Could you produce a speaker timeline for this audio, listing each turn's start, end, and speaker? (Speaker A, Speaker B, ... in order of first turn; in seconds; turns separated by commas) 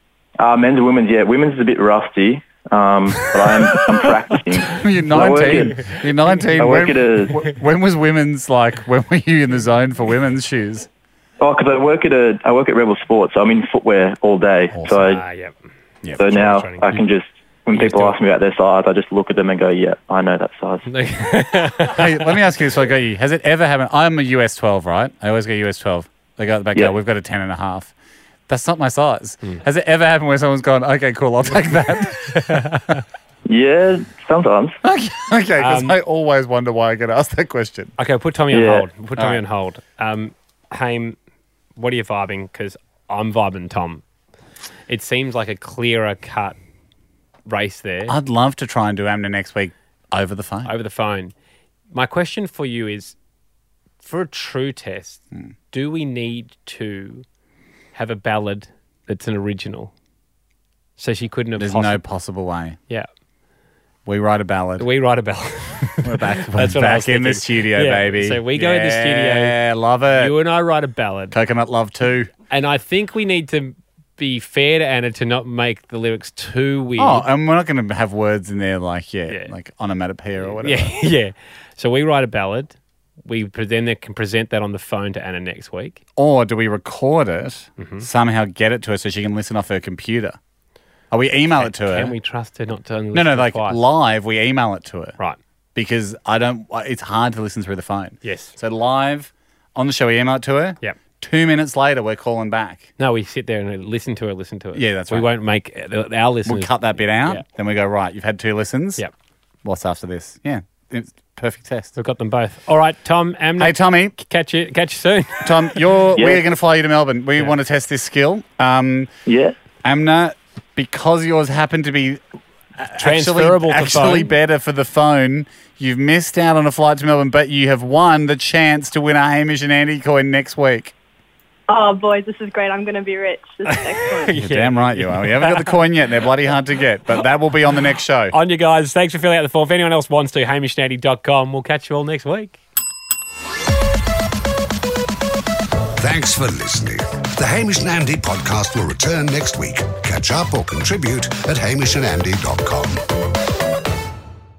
Speaker A: 0.4-6.0, Speaker B: 4.6-10.9, Speaker C: 5.1-5.8, Speaker A: 6.6-7.4, Speaker A: 11.4-15.2, Speaker B: 14.7-15.0, Speaker C: 14.9-15.5, Speaker C: 16.2-17.0, Speaker A: 16.2-20.9, Speaker C: 17.7-18.1, Speaker C: 20.8-22.4, Speaker B: 21.8-27.9, Speaker B: 28.5-32.8, Speaker C: 32.3-33.0, Speaker A: 33.5-34.8, Speaker B: 34.8-37.9, Speaker C: 35.6-36.0, Speaker C: 38.0-41.2, Speaker A: 38.5-38.9, Speaker B: 39.2-39.4, Speaker C: 41.7-44.0, Speaker C: 44.9-46.6, Speaker C: 47.5-48.1, Speaker B: 48.1-50.7, Speaker C: 50.6-51.3, Speaker C: 51.9-53.1, Speaker C: 54.0-57.2, Speaker C: 57.9-59.9, Speaker C: 61.0-62.0, Speaker B: 61.6-62.8, Speaker B: 64.0-64.9, Speaker C: 64.8-69.6, Speaker B: 66.0-70.3, Speaker C: 70.2-71.3, Speaker B: 71.3-72.3, Speaker C: 72.5-77.2, Speaker B: 77.0-81.0, Speaker C: 79.3-79.5, Speaker C: 80.6-86.0, Speaker B: 86.2-90.4, Speaker C: 87.8-88.0, Speaker B: 91.1-92.1, Speaker C: 91.6-93.8, Speaker B: 93.1-95.2, Speaker B: 95.7-102.9, Speaker C: 98.2-98.5, Speaker C: 103.0-107.4, Speaker B: 104.7-105.3, Speaker B: 106.5-109.0, Speaker B: 109.6-112.0, Speaker C: 112.0-115.9, Speaker B: 113.6-114.1, Speaker B: 115.4-119.1, Speaker A: 116.2-116.5, Speaker A: 119.2-119.5, Speaker B: 119.8-122.2, Speaker B: 122.8-130.9, Speaker C: 123.0-124.3, Speaker D: 131.7-134.3, Speaker C: 133.7-135.8, Speaker B: 134.3-138.3, Speaker C: 138.3-142.6, Speaker E: 146.0-153.0